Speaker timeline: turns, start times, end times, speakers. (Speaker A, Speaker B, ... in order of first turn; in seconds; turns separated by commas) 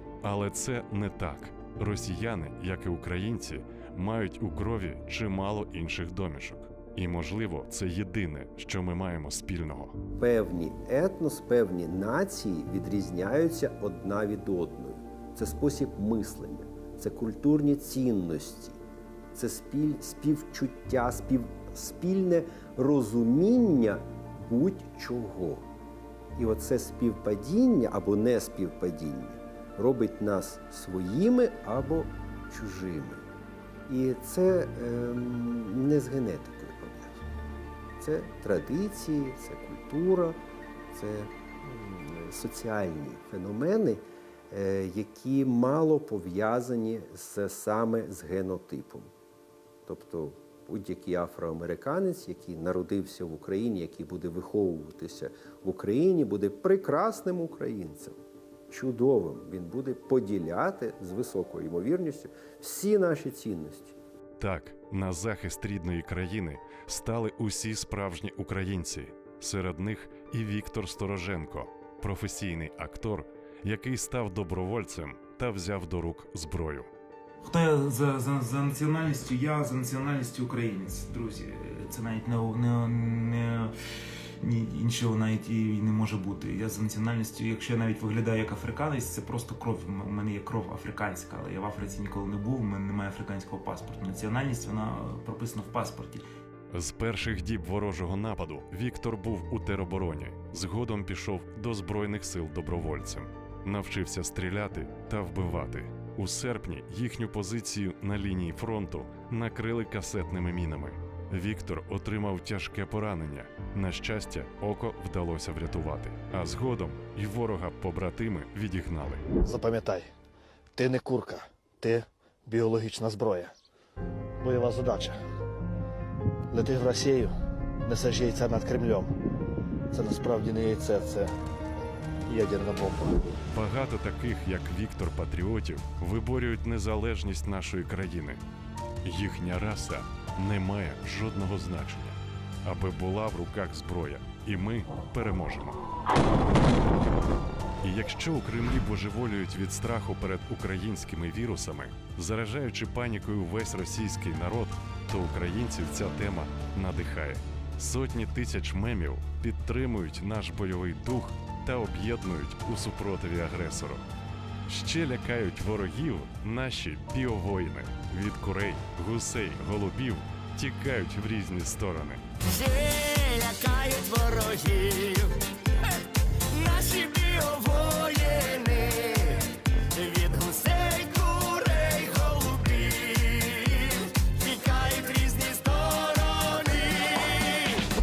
Speaker A: 0.2-9.9, Speaker B: 10.2-18.8, Speaker B: 19.3-25.7, Speaker B: 26.4-33.2, Speaker B: 33.9-37.2, Speaker B: 38.0-40.4, Speaker B: 40.9-49.1, Speaker B: 49.9-58.2, Speaker B: 58.7-64.0, Speaker A: 64.4-76.9, Speaker C: 77.4-83.7, Speaker C: 84.4-96.2, Speaker A: 96.7-119.2, Speaker D: 119.4-120.1, Speaker D: 120.8-123.5, Speaker D: 124.4-125.2, Speaker D: 126.5-127.3, Speaker D: 127.8-129.1, Speaker D: 129.9-131.3, Speaker D: 132.3-133.2, Speaker A: 133.5-138.4, Speaker A: 139.0-145.8, Speaker A: 147.8-164.1, Speaker A: 164.7-172.2, Speaker E: 172.5-175.3, Speaker E: 176.5-187.8